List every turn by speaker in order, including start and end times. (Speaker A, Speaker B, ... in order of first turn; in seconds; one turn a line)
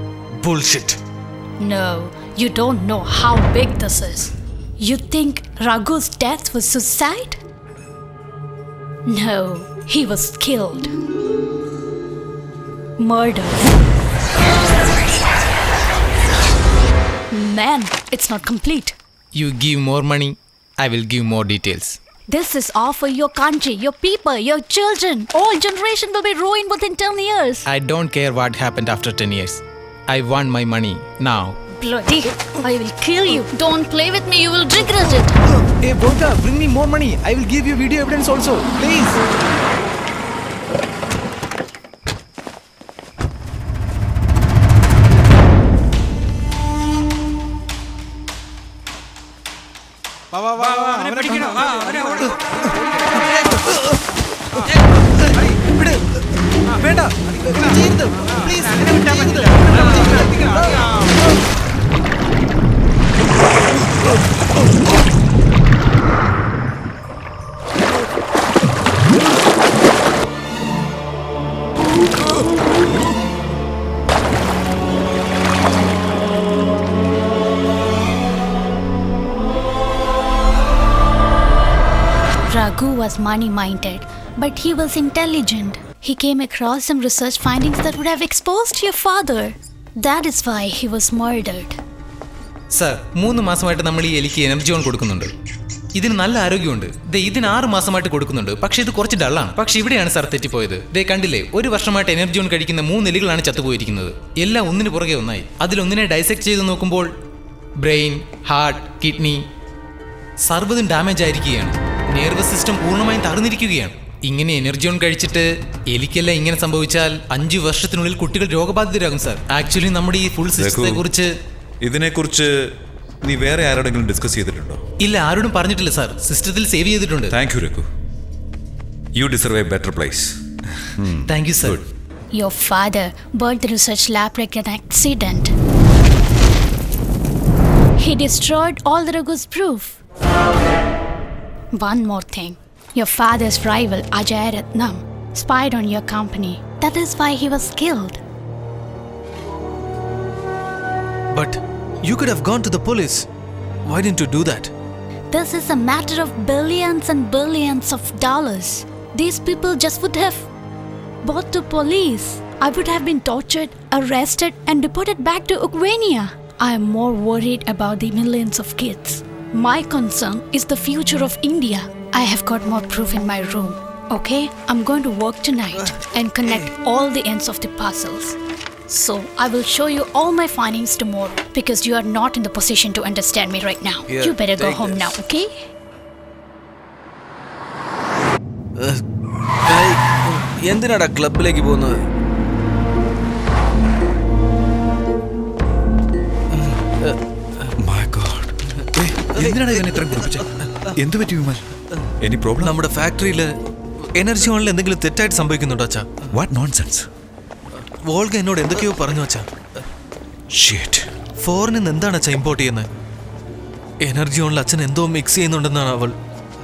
Speaker A: 0.4-1.0
Speaker B: 1.6-7.4
Speaker B: 9.1-10.9
Speaker B: 13.0-13.7
Speaker B: 17.3-18.9
Speaker C: 19.3-22.0
Speaker B: 22.3-27.6
Speaker C: 27.6-31.6
Speaker B: 31.8-35.4
Speaker C: 35.8-39.1
Speaker D: 58.2-60.0
Speaker B: 82.5-91.8
Speaker C: 92.7-95.3
Speaker C: 95.9-107.1
Speaker C: 107.8-109.4
Speaker C: 110.4-121.3
Speaker E: 120.6-121.0
Speaker E: 121.8-122.5
Speaker E: 123.2-124.8
Speaker C: 125.0-127.3
Speaker E: 127.3-127.9
Speaker E: 129.2-130.4
Speaker E: 131.0-131.8
Speaker C: 131.2-131.8
Speaker B: 132.3-135.5
Speaker B: 138.0-140.0
Speaker B: 141.7-148.2
Speaker A: 151.3-153.2
Speaker A: 153.8-154.7
Speaker B: 155.3-160.5
Speaker B: 161.2-178.4
Speaker B: 178.9-185.5
Speaker D: 184.6-185.0
Speaker D: 189.7-191.9
Speaker A: 197.0-197.7
Speaker E: 197.8-198.5
Speaker A: 198.9-199.5
Speaker E: 199.3-201.6
Speaker E: 202.2-202.8
Speaker A: 202.6-203.5
Speaker A: 204.0-206.2
Speaker E: 206.3-207.1
Speaker A: 207.8-209.5
Speaker E: 210.7-211.0
Speaker A: 211.4-212.9
Speaker A: 214.0-216.2